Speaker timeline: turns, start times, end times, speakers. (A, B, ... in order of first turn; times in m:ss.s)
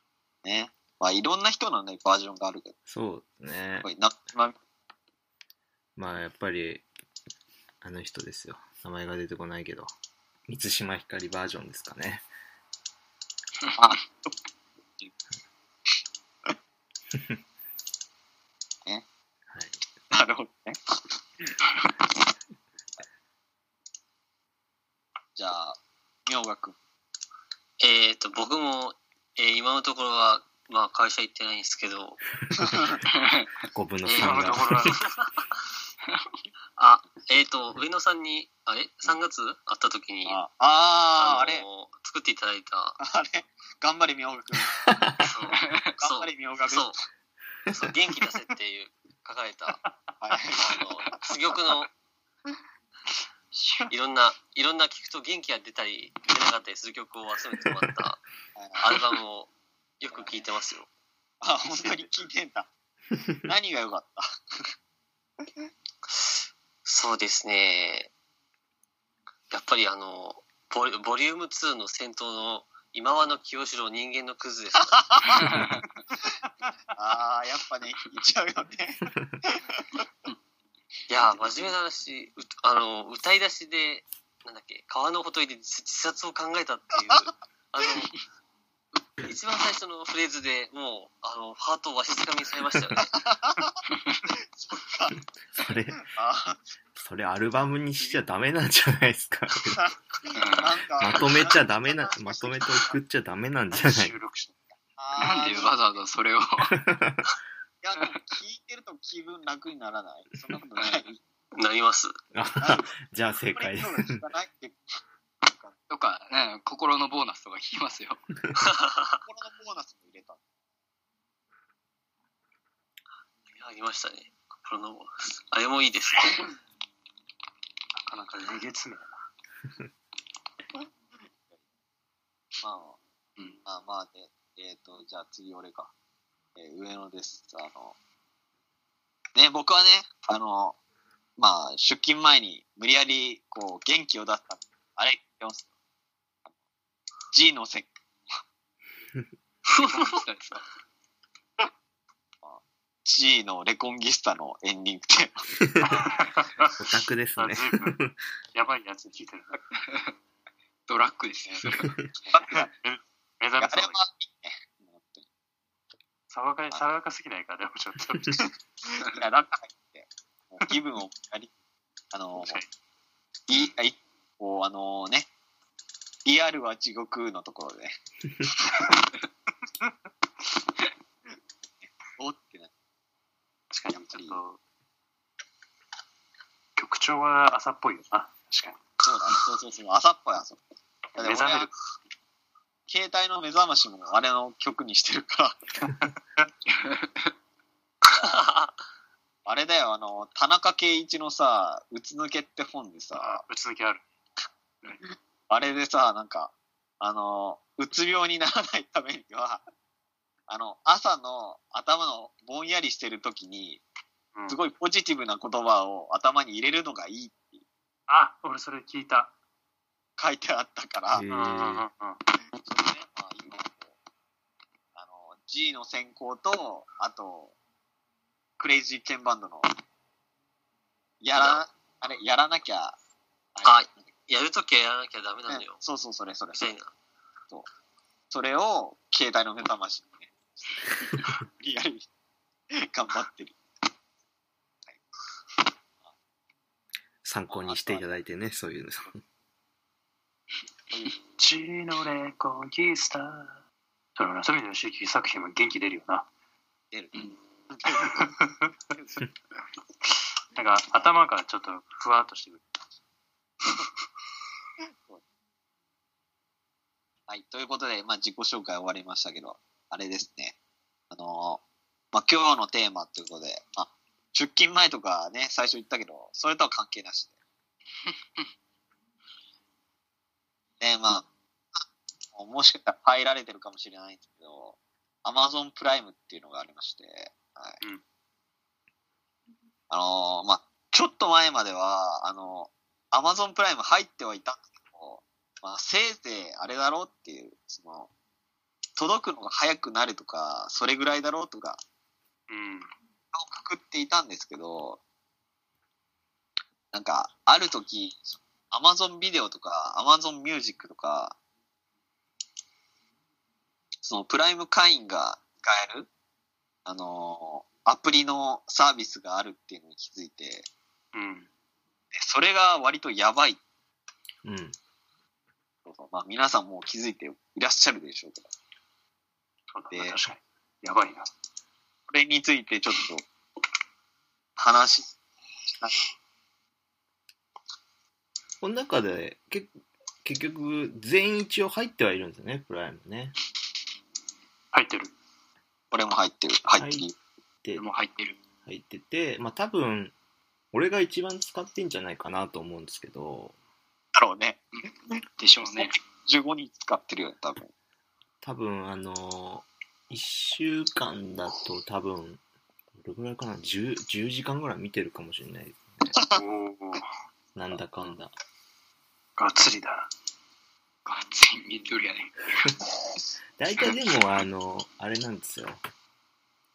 0:00.4-0:02.7 A
0:02.9-0:03.9 B
0:03.8-0:04.6 A
0:06.0-0:06.8 B
0:07.8-0:09.9 B
0:10.5-0:12.2 B
0:13.8-0:14.0 A
0:19.5-0:19.8 B
0:20.1-0:21.5 A
0:25.4-0:26.8 A
0:27.8-0:33.0 C
0:33.7-0:34.9 B
0:34.0-0:35.0 C
0:34.2-0:35.0 D
0:36.8-0:40.4 C
0:40.2-0:41.6 A
0:41.2-0:43.0 C
0:43.0-0:44.9 A
0:44.8-0:45.1 B
0:45.2-0:47.0 C
0:45.5-0:45.9 E
0:46.0-0:46.9 A
0:47.7-0:49.8 C
0:50.2-0:50.8 A
0:50.5-0:51.9 C
0:53.9-0:58.2 C
0:58.8-1:00.9 C
1:00.0-1:00.5 A
1:01.4-1:02.7 A
1:01.6-1:02.1 D
1:03.4-1:04.2 A
1:06.8-1:08.1 C
1:09.5-1:15.5 C
1:14.9-1:15.2 A
1:15.5-1:15.8 E
1:17.0-1:20.0 A
1:21.1-1:28.2 C
1:21.4-1:21.7 E
1:29.2-1:33.2 C
1:33.2-1:33.7 A
1:34.6-1:35.1 A
1:35.6-1:36.0 B
1:36.1-1:36.6 A
1:37.0-1:39.9 B
1:39.8-1:43.0 A
1:40.3-1:40.8 E
1:41.0-1:44.2 B
1:43.7-1:44.6 D
1:45.0-1:46.0 A
1:45.2-1:46.8 E
1:46.7-1:47.3 B
1:47.8-1:51.2 A
1:51.6-1:52.1 C
1:52.3-1:54.2 B
1:52.6-1:53.0 A
1:53.5-1:54.8 A
1:55.4-1:55.7 A
1:55.9-1:58.3 E
1:58.6-1:59.2 C
1:59.2-2:00.4 A
2:03.5-2:06.5 C
2:08.0-2:09.1 D
2:12.6-2:13.0 A
2:13.6-2:15.9 A
2:16.6-2:17.9 A
2:19.3-2:20.8 A
2:21.4-2:25.7 A
2:27.3-2:27.9 A
2:29.8-2:30.6 E
2:32.4-2:35.5 A
2:35.6-2:35.9 B
2:35.8-2:36.7 D
2:36.8-2:38.2 B
2:37.4-2:38.0 D
2:38.5-2:39.6 D
2:39.8-2:40.1 E
2:40.9-2:41.9 E
2:41.6-2:42.1 B
2:42.3-2:42.7 A
2:42.5-2:44.0 D
2:43.6-2:45.2 A
2:46.3-2:48.5 D
2:48.8-2:51.5 A
2:52.1-2:52.6 A
2:52.4-2:52.7 D
2:53.5-2:55.3 A
2:56.2-2:57.9 A
3:02.2-3:02.7 A
3:03.7-3:04.6 D
3:03.9-3:04.4 A
3:06.8-3:08.8 D
3:09.0-3:10.6 A
3:11.2-3:11.7 A
3:11.2-3:11.7 D
3:12.9-3:15.6 A
3:16.8-3:17.3 E
3:18.1-3:18.4 A
3:18.2-3:18.7 C
3:19.4-3:23.4 A
3:23.2-3:24.0 D
3:25.5-3:29.6 A
3:30.5-3:33.8 A
3:34.3-3:34.6 D
3:34.5-3:37.6 A
3:38.1-3:39.3 D
3:40.2-3:41.2 A
3:41.1-3:41.8 B
3:41.3-3:42.2 D
3:42.6-3:44.0 A
3:45.0-3:47.5 A
3:48.6-3:49.7 A
3:51.2-3:53.0 A
3:53.5-3:54.1 A
3:53.6-3:55.8 C
3:55.5-3:56.7 A
3:56.5-3:56.9 C
3:58.3-4:00.3 A
4:01.2-4:02.1 A
4:02.7-4:03.6 A
4:07.2-4:09.2 B
4:07.5-4:08.1 A
4:11.4-4:13.6 D
4:14.2-4:16.3 D
4:16.9-4:18.1 A
4:17.9-4:18.5 D
4:20.5-4:22.6 D
4:27.3-4:30.6 A
4:31.1-4:31.6 A
4:32.1-4:37.3 A
4:40.8-4:41.3 A
4:42.3-4:47.8 A
4:49.9-4:58.1 A
4:59.0-5:01.8 A
5:02.5-5:02.9 D
5:03.3-5:05.0 A
5:06.9-5:11.4 A
5:14.0-5:16.1 A
5:16.8-5:20.7 A
5:21.1-5:21.5 D
5:22.1-5:23.6 A
5:24.4-5:24.8 B
5:25.8-5:28.5 A
5:29.7-5:31.3 D
5:29.9-5:30.2 A
5:32.1-5:33.2 A
5:34.6-5:35.1 A
5:38.6-5:39.7 B
5:40.2-5:43.3 B
5:44.7-5:45.1 D
5:45.9-5:47.1 A
5:46.7-5:47.1 B
5:47.8-5:48.4 E
5:48.6-5:50.1 B
5:50.7-5:53.5 B
5:54.1-5:57.7 A
5:54.7-5:56.0 E
5:58.4-6:02.4 B
6:02.9-6:06.1 B
6:06.2-6:06.4 A
6:06.2-6:07.0 D
6:07.5-6:08.3 B
6:09.4-6:10.1 D
6:11.0-6:12.6 E
6:13.6-6:15.8 B